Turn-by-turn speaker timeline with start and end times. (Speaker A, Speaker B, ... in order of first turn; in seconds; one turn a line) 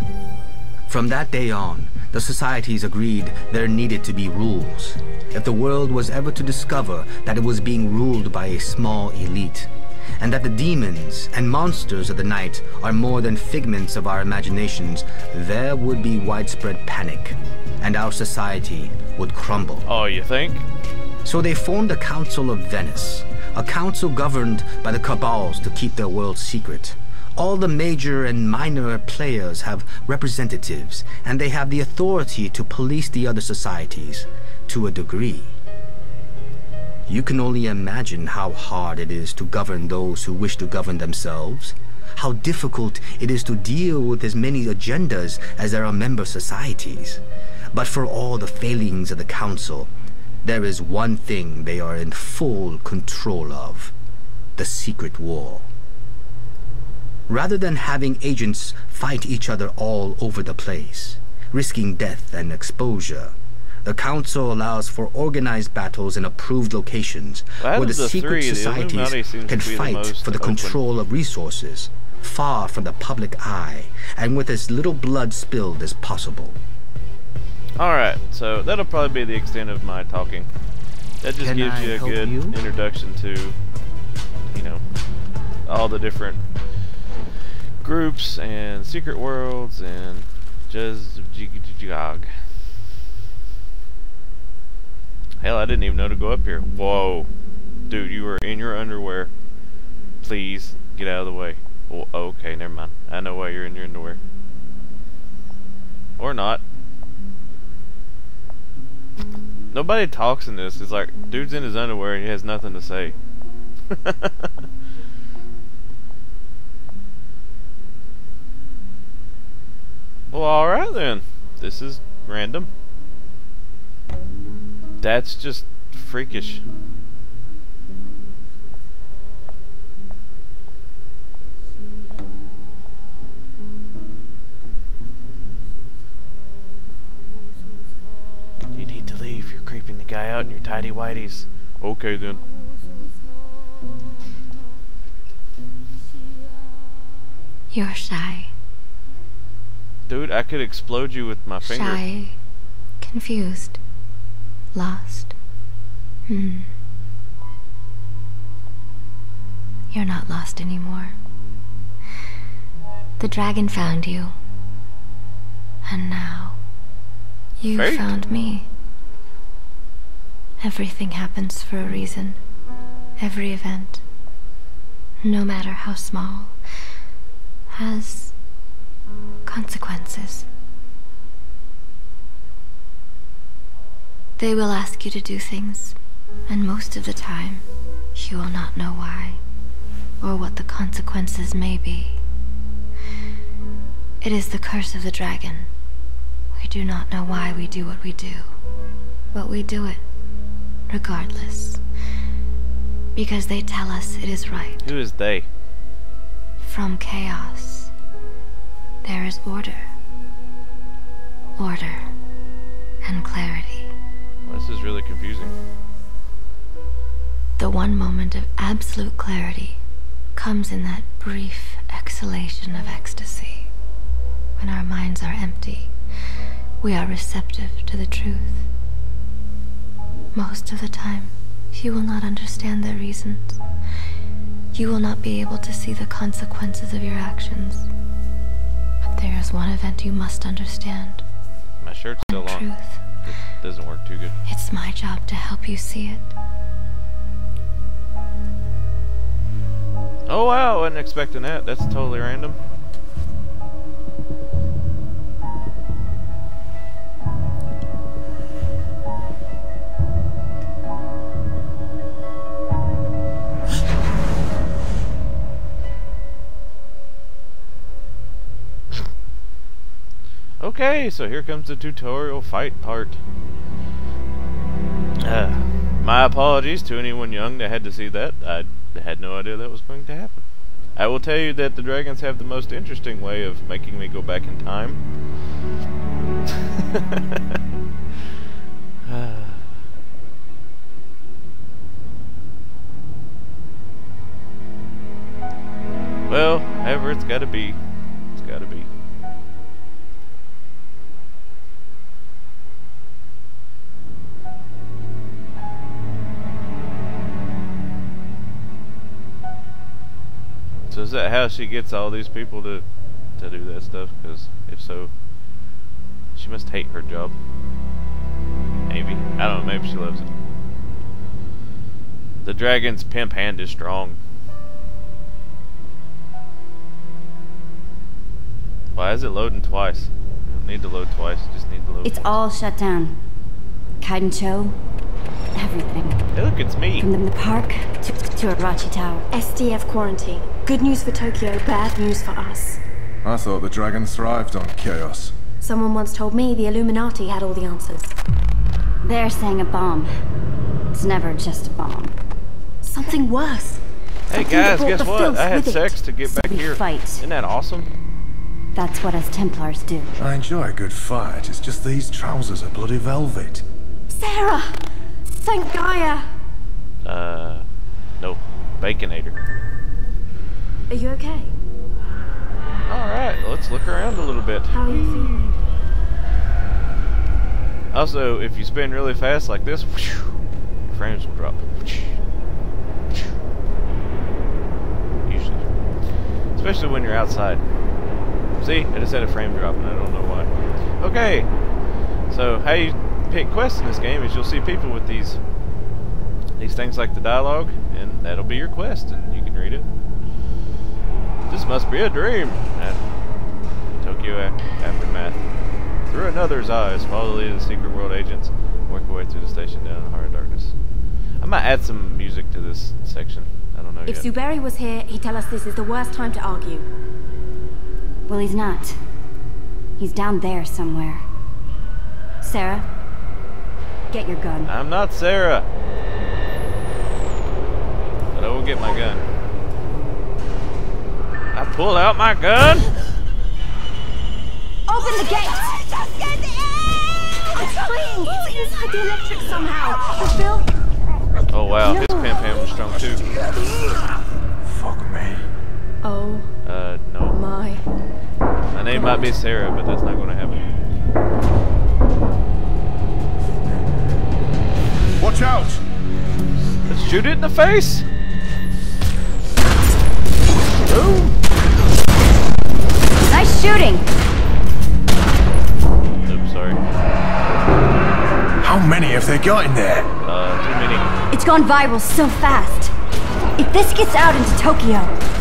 Speaker A: 0.9-19.9
Speaker B: 19.9-20.6
Speaker A: 21.2-35.5
Speaker A: 37.1-47.2
Speaker A: 47.7-49.9
Speaker A: 50.4-53.9
Speaker A: 54.6-55.7
Speaker A: 57.3-76.6
Speaker B: 67.6-70.8
Speaker B: 77.8-80.5
Speaker B: 81.2-83.6
Speaker A: 81.4-82.6
Speaker B: 84.5-84.8
Speaker B: 85.7-86.4
Speaker B: 87.8-92.3
Speaker B: 95.4-97.3
Speaker B: 97.9-99.3
Speaker B: 100.2-104.2
Speaker B: 106.2-106.6
Speaker B: 109.7-113.2
Speaker B: 113.9-114.5
Speaker B: 120.3-122.7
Speaker B: 125.0-126.6
Speaker B: 138.8-142.4
Speaker C: 147.7-148.5
Speaker B: 150.1-152.0
Speaker C: 151.6-152.4
Speaker C: 153.0-153.8
Speaker C: 154.7-155.3
Speaker C: 156.3-156.7
Speaker C: 159.9-161.2
Speaker C: 163.2-164.3
Speaker C: 165.8-166.6
Speaker C: 167.6-168.7
Speaker B: 167.7-168.1
Speaker C: 170.6-172.4
Speaker C: 173.2-174.0
Speaker C: 175.2-176.6
Speaker C: 177.7-178.3
Speaker C: 179.5-180.5
Speaker C: 184.4-186.0
Speaker C: 186.5-189.4
Speaker C: 190.2-192.2
Speaker C: 194.2-195.7
Speaker C: 196.5-198.5
Speaker C: 199.3-200.0
Speaker C: 200.9-201.8
Speaker C: 203.2-204.9
Speaker B: 204.8-205.5
Speaker C: 206.6-207.9
Speaker C: 209.0-209.9
Speaker C: 211.6-212.1
Speaker C: 213.0-213.9
Speaker B: 214.4-215.6
Speaker C: 217.6-219.8
Speaker C: 220.3-223.7
Speaker C: 224.6-225.9
Speaker C: 226.8-228.7
Speaker C: 230.3-233.6
Speaker C: 234.7-237.9
Speaker C: 239.0-241.2
Speaker B: 241.8-242.7
Speaker C: 242.2-243.1
Speaker B: 243.2-244.3
Speaker C: 244.4-246.3
Speaker B: 250.3-252.6
Speaker B: 270.6-273.2
Speaker B: 275.2-280.4
Speaker B: 281.0-285.0
Speaker B: 286.5-287.6
Speaker B: 289.1-289.7
Speaker B: 296.3-297.8
Speaker B: 298.4-298.9
Speaker B: 310.9-312.9
Speaker B: 313.4-315.1
Speaker B: 316.4-317.4
Speaker B: 318.9-320.3
Speaker B: 322.4-324.2
Speaker B: 328.9-332.4
Speaker D: 332.1-333.1
Speaker D: 334.0-334.8
Speaker D: 335.5-336.2
Speaker B: 336.3-337.1
Speaker D: 337.0-339.2
Speaker E: 339.3-342.8
Speaker F: 343.2-345.3
Speaker E: 345.6-348.1
Speaker D: 349.0-350.1
Speaker D: 350.9-352.1
Speaker E: 352.8-353.8
Speaker B: 354.3-357.9
Speaker E: 354.3-356.0
Speaker D: 356.3-357.2
Speaker D: 358.7-360.1
Speaker F: 360.2-363.6
Speaker E: 364.1-364.8
Speaker E: 365.4-366.2
Speaker B: 367.0-367.6
Speaker B: 368.2-369.4
Speaker E: 370.9-371.5
Speaker B: 372.9-375.6
Speaker E: 374.7-375.4
Speaker B: 377.9-380.3
Speaker B: 380.9-382.2
Speaker B: 385.2-385.6
Speaker B: 386.6-387.6
Speaker B: 388.6-391.5
Speaker B: 392.3-395.4
Speaker B: 396.6-399.9
Speaker B: 401.5-403.0
Speaker B: 404.0-405.4
Speaker B: 406.1-410.7
Speaker B: 411.4-414.3
Speaker E: 414.1-416.9
Speaker D: 418.3-419.0
Speaker D: 420.0-421.2
Speaker D: 422.4-422.9
Speaker D: 424.1-424.7
Speaker B: 424.6-425.7
Speaker B: 428.3-429.2
Speaker B: 431.5-432.9
Speaker E: 434.9-435.8
Speaker E: 437.5-440.7
Speaker B: 441.5-443.2
Speaker E: 441.9-442.2
Speaker F: 444.6-445.5
Speaker E: 446.0-446.5
Speaker B: 446.6-447.4
Speaker E: 447.3-447.8
Speaker B: 448.7-450.6
Speaker E: 448.9-449.3
Speaker F: 455.2-455.8
Speaker B: 456.9-458.1
Speaker B: 460.8-461.4
Speaker D: 463.2-464.1
Speaker B: 466.2-466.8
Speaker F: 468.6-470.1
Speaker B: 470.2-471.1
Speaker D: 471.3-472.9
Speaker D: 473.6-475.2